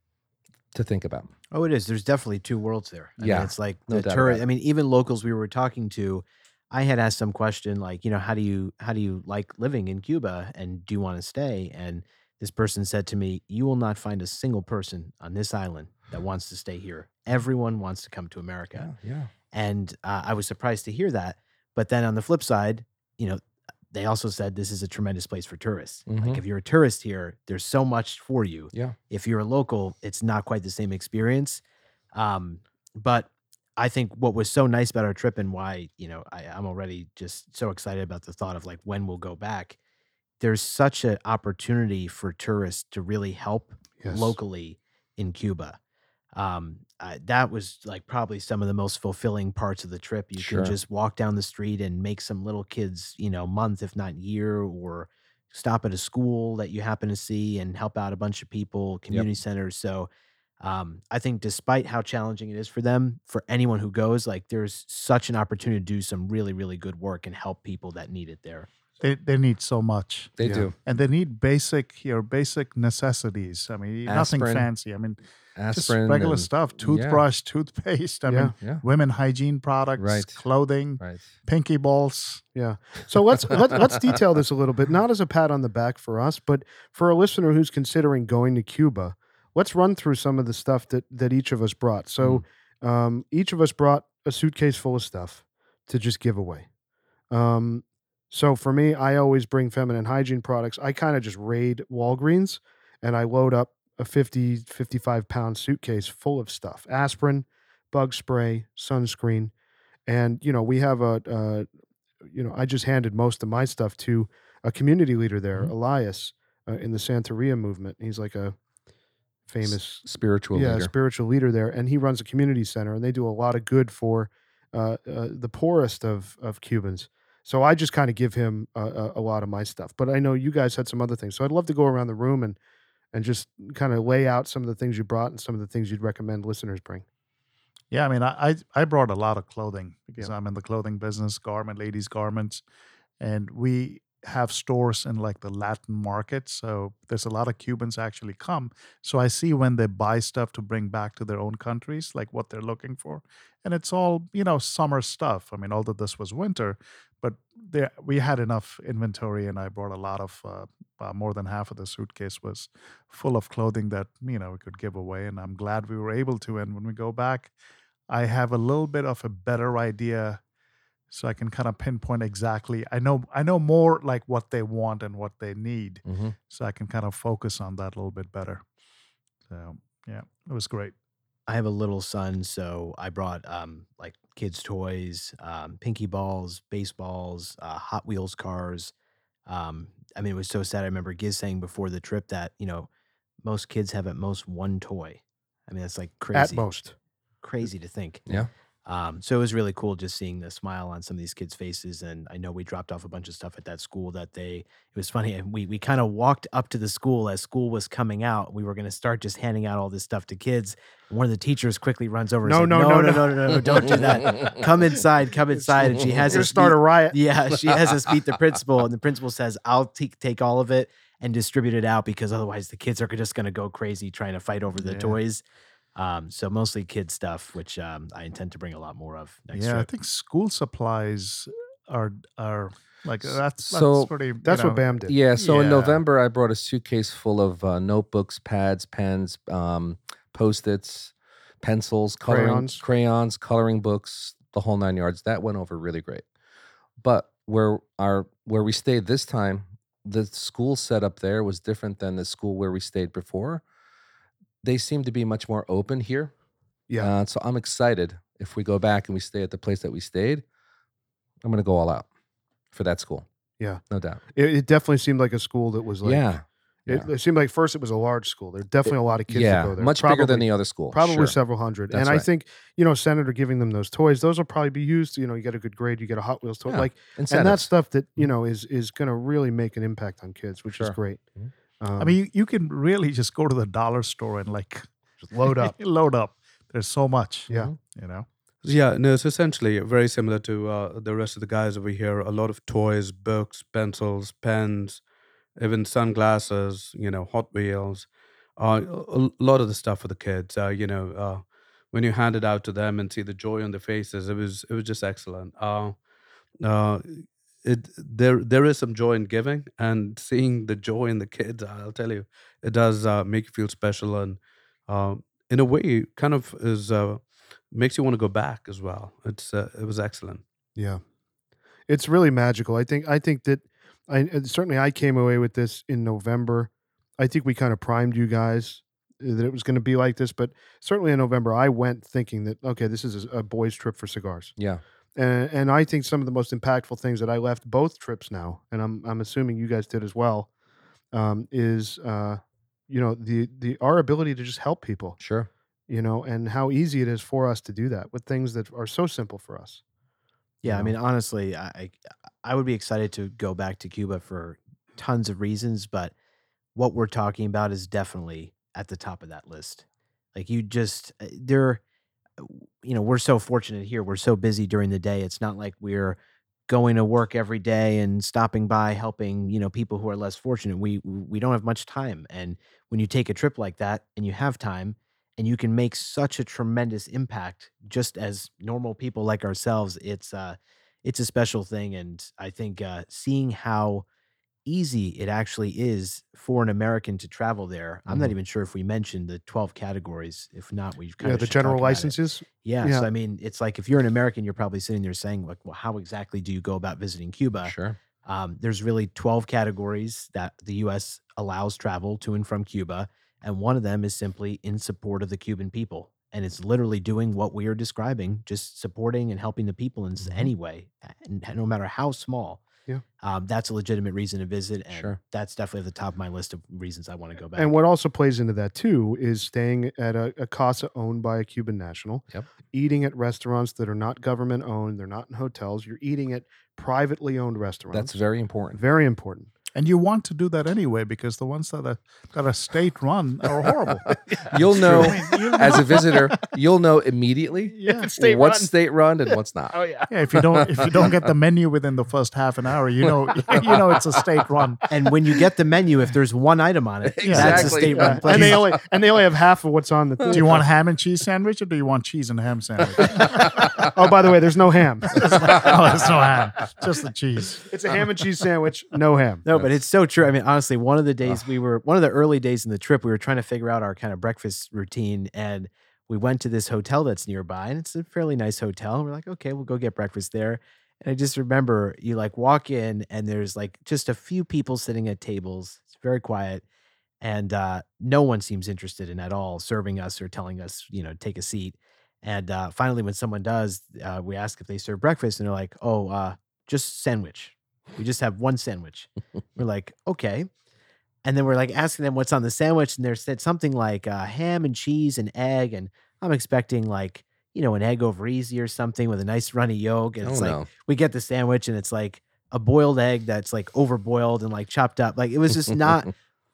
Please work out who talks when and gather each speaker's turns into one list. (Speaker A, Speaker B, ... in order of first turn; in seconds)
Speaker A: 0.7-1.3, 3.2-4.5, 18.7-19.3, 26.1-26.4, 28.7-29.0, 50.4-50.8, 70.4-70.7, 74.1-74.7, 75.5-77.2, 80.0-80.4, 81.0-81.3, 119.6-120.9, 176.1-176.3, 213.9-214.6, 233.2-234.1, 235.1-246.2, 247.0-253.6, 254.6-256.3, 257.0-260.4, 261.4-262.1, 262.7-263.2, 263.9-264.2, 266.0-267.1, 269.3-271.4, 271.9-272.2, 276.7-277.7, 280.7-281.5, 287.5-287.8, 334.6-334.8, 345.2-345.5, 388.1-388.3, 397.6-398.0, 410.2-410.5, 414.9-415.2, 427.9-428.8, 434.1-439.8, 440.4-441.0, 443.4-444.0, 447.0-448.4, 455.4-455.7, 459.5-459.8, 500.2-500.7
Speaker B: 1.5-18.9, 19.5-23.4, 23.9-31.6, 32.1-39.8, 40.4-45.8, 46.3-60.1, 60.6-68.7, 181.5-188.9, 189.5-192.9, 193.4-196.7, 197.4-225.4, 225.9-229.9, 350.6-356.1, 356.7-361.8, 362.4-384.0, 384.6-397.7, 398.2-412.6, 413.2-417.7, 444.9-448.6, 459.4-476.6, 477.2-490.5, 491.2-506.1
Speaker C: 44.0-44.4, 70.4-70.7, 78.2-78.5, 82.5-96.7, 97.3-109.5, 110.0-111.7, 112.3-118.5, 119.5-132.6, 133.1-137.0, 196.3-196.9, 212.4-214.0, 215.5-217.2, 234.4-235.1, 242.2-242.8, 264.3-266.3, 266.9-281.2, 281.8-282.2, 285.2-285.8, 320.8-321.0, 321.9-334.5, 335.1-340.5, 341.1-345.2, 345.9-349.8, 391.2-393.1, 417.6-428.2, 428.7-429.5, 437.7-438.7, 439.7-440.1, 447.5-450.6, 453.2-455.7, 457.6-459.4
Speaker D: 69.0-75.2, 75.7-82.4, 137.9-142.6, 143.2-167.5, 168.1-170.4, 171.1-178.6, 179.5-180.9, 224.8-225.2, 229.5-236.0, 282.0-284.9, 285.4-288.2, 429.8-436.4, 440.1-444.9, 447.2-448.7, 450.3-453.8, 455.1-457.7
Speaker E: 288.6-295.0, 295.6-306.0, 306.6-320.4